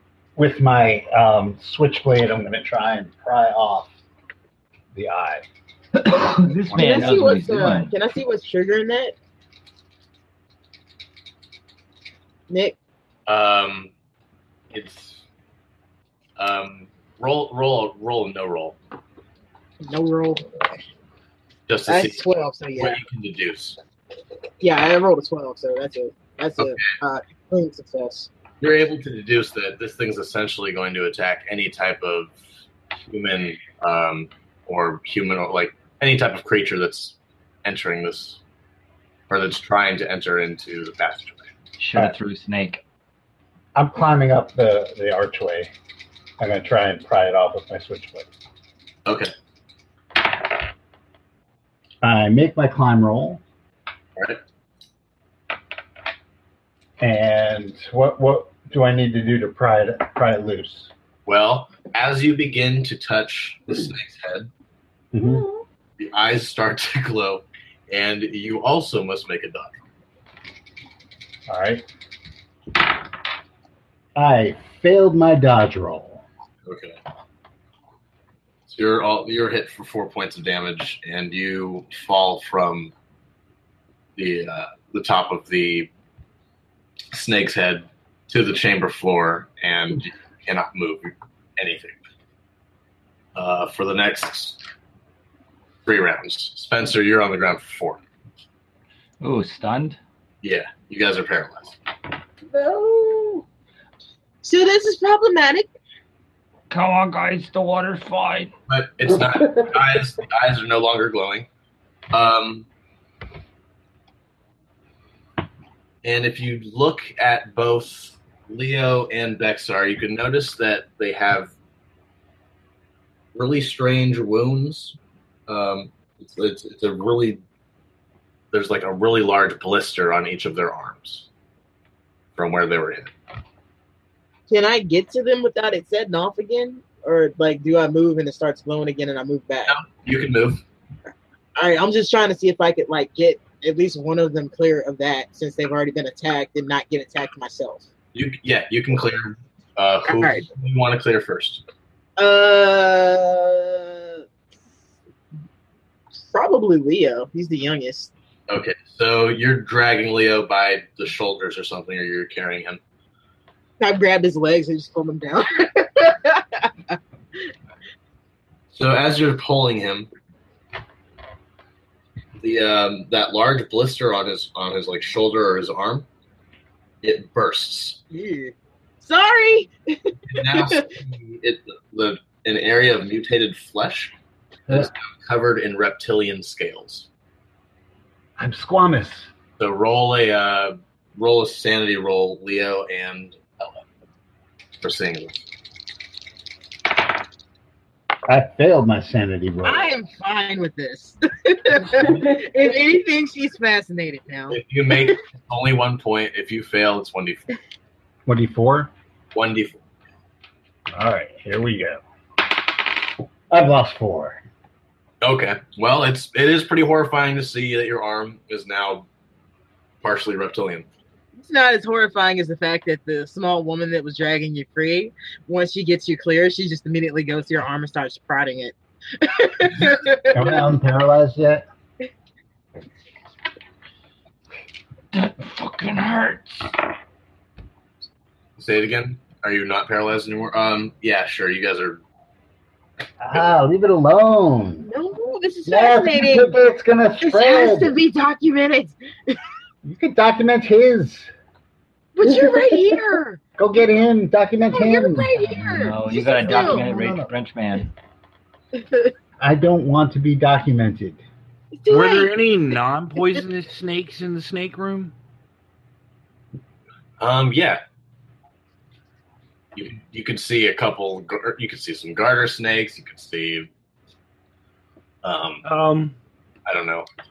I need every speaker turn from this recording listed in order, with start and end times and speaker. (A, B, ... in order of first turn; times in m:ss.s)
0:00.4-0:03.9 A
0:04.9-0:05.4 A
0:06.0-0:07.9 B
0:06.6-0:07.3 A
0:06.7-0:09.2 C
0:12.5-0:12.8 C
0:13.3-0:13.9 D
0:14.7-0:15.2 D
0:16.4-0:18.8 D
0:19.8-0:20.8 C
0:21.7-0:23.8 D
0:21.9-0:23.0 C
0:24.6-0:28.3 C
0:26.6-0:26.9 D
0:28.6-0:32.4 D
0:33.1-0:38.4 D
0:39.3-0:41.4 D
0:41.8-0:42.8 B
0:43.7-0:45.7 A
0:46.4-0:48.3 A
0:49.0-0:49.3 D
0:52.0-0:53.4 A
0:57.0-1:00.9 A
1:01.2-1:04.5 D
1:05.1-1:05.4 A
1:05.2-1:05.6 E
1:06.0-1:09.8 D
1:11.5-1:11.8 A
1:14.1-1:16.2 A
1:16.6-1:17.0 D
1:18.7-1:22.9 D
1:24.2-1:25.9 D
1:27.1-1:32.0 D
1:33.3-1:34.6 D
1:35.8-1:38.0 D
1:39.2-1:40.0 B
1:40.4-1:41.8 D
1:42.5-1:43.4 E
1:44.4-1:45.7 C
1:46.7-1:48.5 B
1:48.7-1:51.5 D
1:52.1-1:52.6 D
1:56.0-2:01.5 D
2:03.3-2:05.0 D
2:05.5-2:07.4 D
2:08.5-2:11.3 D
2:12.3-2:13.1 D
2:14.5-2:19.7 C
2:19.7-2:20.6 D
2:21.6-2:27.8 C
2:28.1-2:31.6 D
2:30.1-2:30.4 C
2:32.2-2:34.2 C
2:36.1-2:38.1 C
2:38.5-2:42.8 D
2:43.8-2:47.0 C
2:48.7-2:50.1 D
2:52.4-2:56.0 D
2:57.0-2:58.0 D
2:58.1-3:00.8 C
3:00.3-3:04.1 D
3:04.7-3:07.1 D
3:08.4-3:09.3 A
3:09.6-3:13.8 D
3:14.8-3:15.4 D
3:18.3-3:19.9 A
3:19.6-3:25.2 C
3:24.5-3:27.5 D
3:28.2-3:28.9 A
3:29.3-3:29.8 D
3:30.9-3:32.0 A
3:33.5-3:34.4 A
3:35.2-3:39.1 D
3:40.0-3:40.8 D
3:41.4-3:50.6 C
3:50.3-3:51.6 A
3:55.1-3:56.6 B
3:58.6-4:02.0 D
4:03.2-4:04.9 A
4:04.8-4:06.6 C
4:05.6-4:08.0 A
4:07.2-4:09.4 C
4:09.8-4:11.3 A
4:12.2-4:13.4 C
4:12.2-4:13.0 E
4:13.6-4:17.3 A
4:14.7-4:16.8 C
4:15.7-4:17.9 B
4:18.8-4:19.1 C
4:19.4-4:21.2 A
4:21.7-4:22.4 C
4:21.9-4:25.1 F
4:27.2-4:27.8 D
4:29.7-4:33.7 D
4:35.2-4:35.6 D
4:35.6-4:36.1 F
4:36.6-4:37.1 D